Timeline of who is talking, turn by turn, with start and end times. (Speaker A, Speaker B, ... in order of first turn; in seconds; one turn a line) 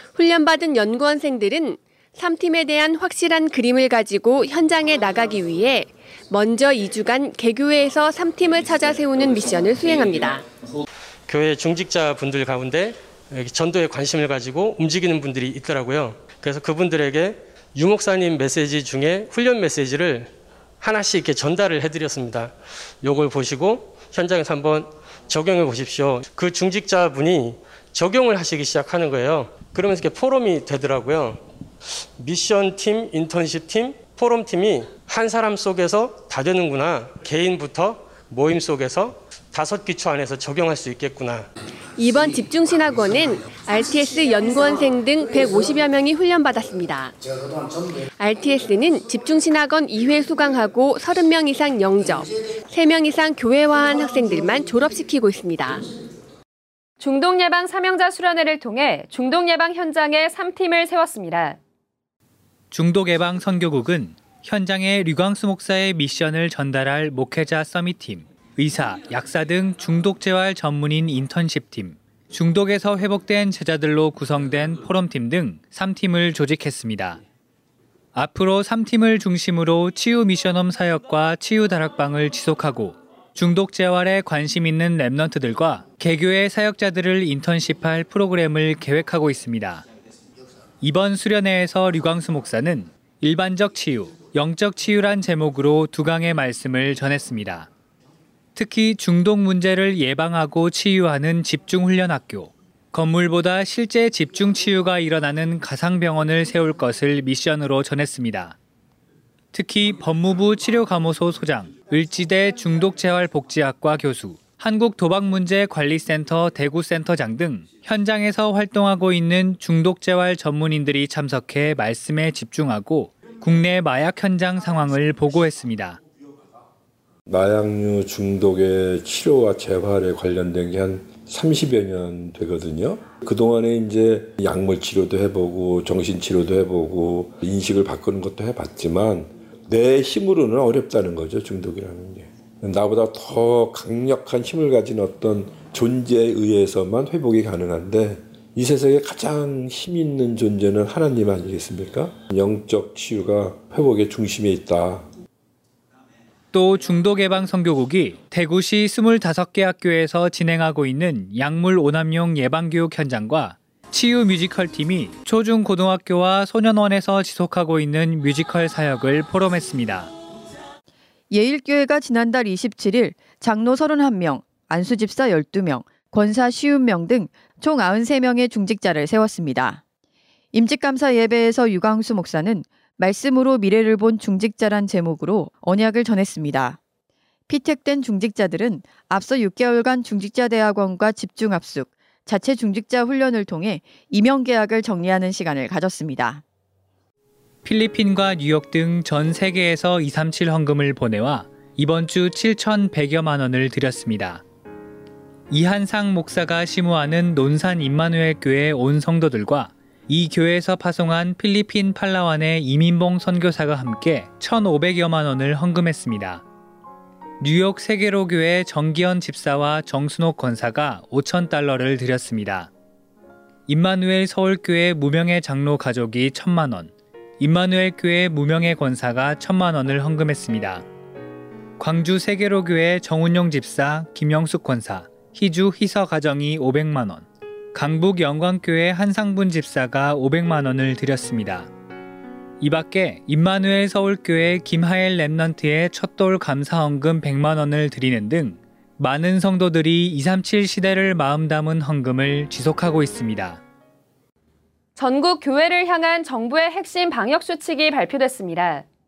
Speaker A: 0.1-10.4
Speaker B: 11.3-31.4
Speaker B: 32.2-41.5
Speaker A: 42.0-47.1
Speaker A: 48.2-55.8
Speaker C: 57.0-61.6
Speaker D: 62.7-77.2
Speaker D: 78.1-89.8
Speaker D: 90.8-97.7
Speaker D: 98.5-108.5
Speaker D: 109.5-126.0
Speaker E: 127.3-155.1
Speaker D: 156.5-170.1
Speaker F: 171.3-179.8
Speaker F: 180.5-186.8
Speaker F: 187.5-196.4
Speaker D: 197.6-204.4
Speaker D: 205.5-216.4
Speaker D: 217.4-222.7
Speaker D: 223.7-230.8
Speaker D: 231.8-241.7
Speaker D: 242.6-253.6
Speaker C: 254.9-258.9